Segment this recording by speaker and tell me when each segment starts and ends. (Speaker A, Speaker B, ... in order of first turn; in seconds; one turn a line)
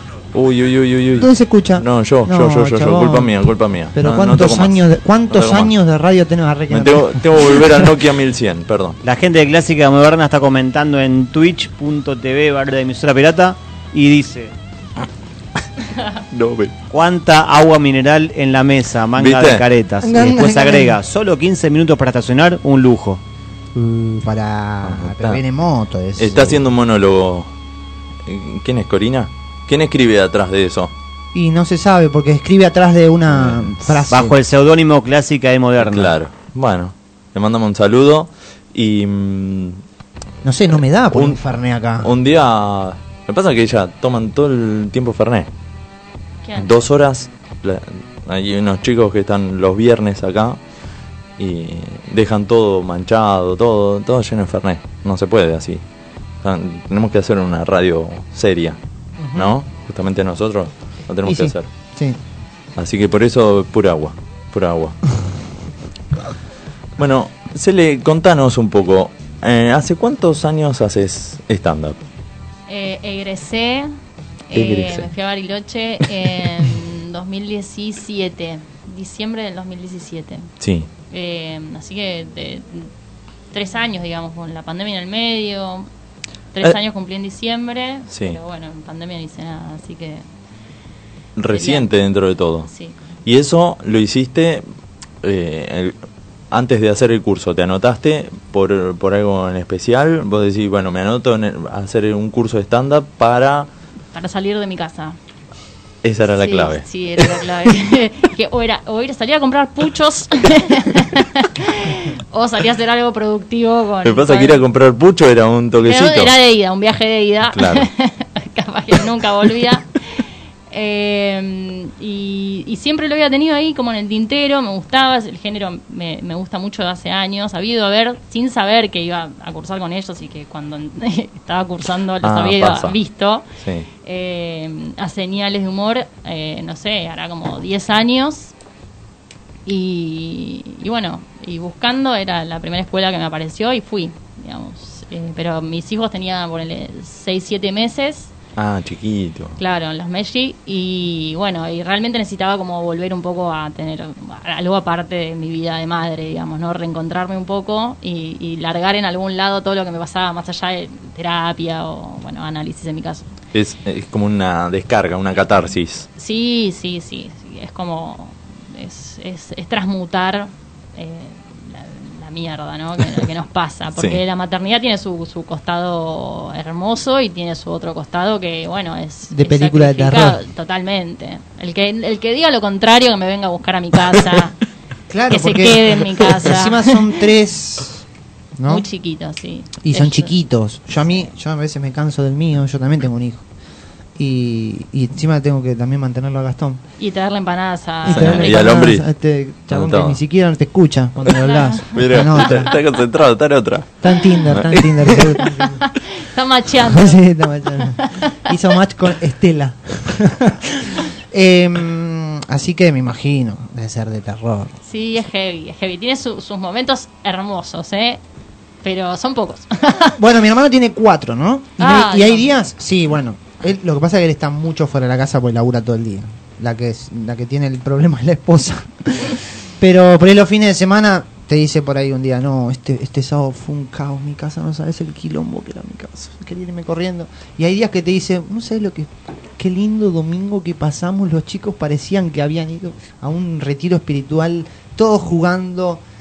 Speaker A: 0.3-5.7
Speaker B: 1.1-3.3
Speaker B: 3.9-7.8
Speaker A: 6.7-9.0
Speaker C: 9.0-14.5
Speaker A: 16.3-16.7
Speaker C: 16.9-23.2
Speaker A: 19.2-19.6
Speaker B: 20.0-21.0
Speaker B: 23.7-26.6
Speaker A: 24.8-25.4
Speaker A: 26.2-27.5
Speaker A: 28.2-30.9
Speaker B: 31.3-34.4
Speaker A: 33.3-34.0
Speaker C: 34.1-36.1
Speaker A: 35.8-39.8
Speaker B: 40.4-42.1
Speaker A: 41.1-41.4
Speaker A: 42.0-45.5
Speaker D: 46.4-46.8
Speaker A: 46.6-50.6
Speaker A: 51.4-55.8
Speaker A: 56.4-58.8
Speaker B: 59.2-59.5
Speaker A: 59.3-61.7
Speaker B: 61.2-62.2
Speaker A: 62.8-65.0
Speaker A: 67.0-72.0
Speaker D: 72.7-73.9
Speaker D: 74.5-80.5
Speaker A: 74.5-75.1
Speaker A: 80.6-80.9
Speaker D: 81.1-82.9
Speaker D: 83.5-85.9
Speaker D: 86.5-90.2
Speaker A: 88.1-88.4
Speaker A: 91.3-92.7
Speaker D: 91.5-91.9
Speaker D: 92.7-93.0
Speaker A: 93.2-94.6
Speaker A: 95.2-95.9
Speaker A: 96.5-103.7
Speaker D: 104.1-105.2
Speaker A: 106.0-107.7
Speaker D: 106.3-114.6
Speaker A: 114.0-116.3
Speaker D: 115.8-120.2
Speaker A: 117.5-117.9
Speaker D: 120.7-133.4
Speaker A: 132.2-133.0
Speaker A: 133.6-133.9
Speaker D: 134.0-138.5
Speaker D: 139.7-148.3
Speaker A: 148.6-149.6
Speaker D: 149.6-163.3
Speaker A: 163.5-166.1
Speaker D: 166.2-184.6
Speaker A: 173.9-174.2
Speaker B: 179.3-180.4
Speaker B: 185.1-188.0
Speaker D: 185.3-187.1
Speaker B: 188.6-188.8
Speaker D: 188.7-190.3
Speaker B: 189.8-193.4
Speaker B: 194.2-196.8
Speaker D: 197.0-198.7
Speaker B: 198.0-202.7
Speaker A: 198.1-199.1
Speaker A: 199.7-200.2
Speaker D: 201.3-201.9
Speaker A: 201.9-205.3
Speaker B: 204.0-205.8
Speaker D: 205.5-207.2
Speaker B: 206.8-214.7
Speaker D: 207.7-208.5
Speaker D: 214.8-218.2
Speaker D: 218.8-220.2
Speaker B: 220.1-246.0
Speaker D: 221.8-222.5